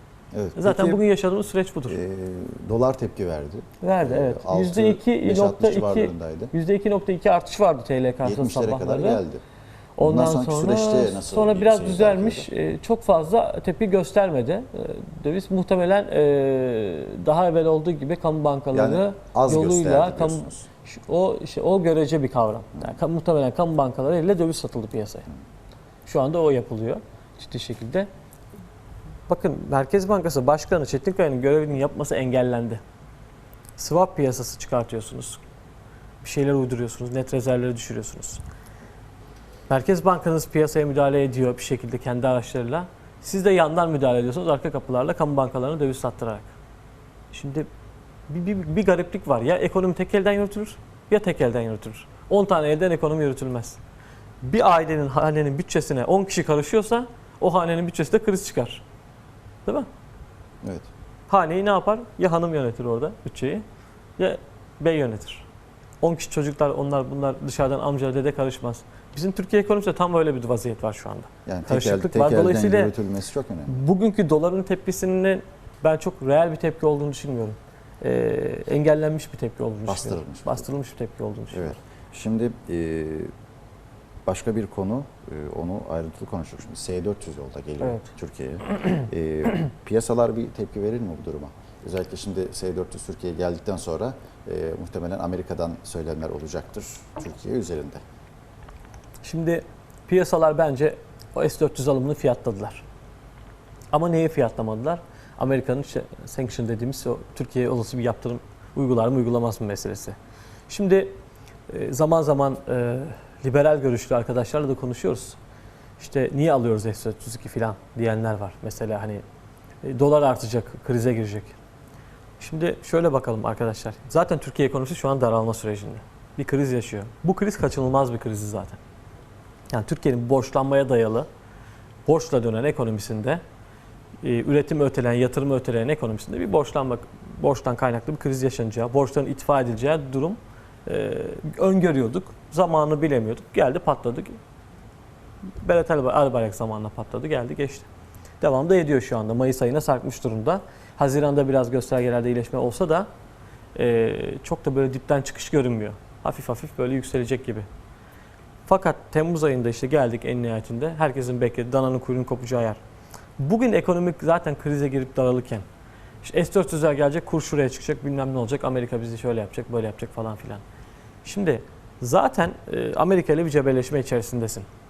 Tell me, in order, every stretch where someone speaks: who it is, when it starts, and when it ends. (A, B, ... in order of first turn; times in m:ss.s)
0:00.3-0:01.0 A
0:00.6-0:02.0 B
0:01.9-0:06.5 A
0:03.8-0:09.2 B
0:08.2-0:09.4 A
0:10.0-0:25.3 B
0:10.0-0:12.5 A
0:18.7-0:20.6 A
0:26.0-0:28.1 B
0:29.3-0:32.8 B
0:33.8-0:35.4 B
0:36.2-0:38.4 B
0:39.7-0:46.5 B
0:47.3-0:47.7 B
0:48.3-0:53.8 B
0:54.4-0:58.8 B
1:00.6-1:00.9 A
1:01.3-1:03.6 B
1:04.2-1:05.5 B
1:06.0-1:12.9 B
1:11.4-1:13.8 A
1:13.7-1:21.8 B
1:19.9-1:20.7 A
1:21.5-1:23.3 A
1:24.3-1:38.0 A
1:39.2-1:42.8 B
1:43.9-1:50.2 B
1:50.7-1:51.1 B
1:51.7-1:55.4 B
1:56.0-1:59.2 B
1:59.8-2:01.6 B
2:02.4-2:08.8 B
2:09.7-2:11.3 B
2:12.0-2:13.4 B
2:14.2-2:24.4 B
2:25.6-2:27.9 B
2:28.4-2:33.1 B
2:33.7-2:37.6 B
2:38.7-2:42.8 B
2:43.4-2:45.6 B
2:46.2-2:50.6 B
2:51.2-2:54.7 B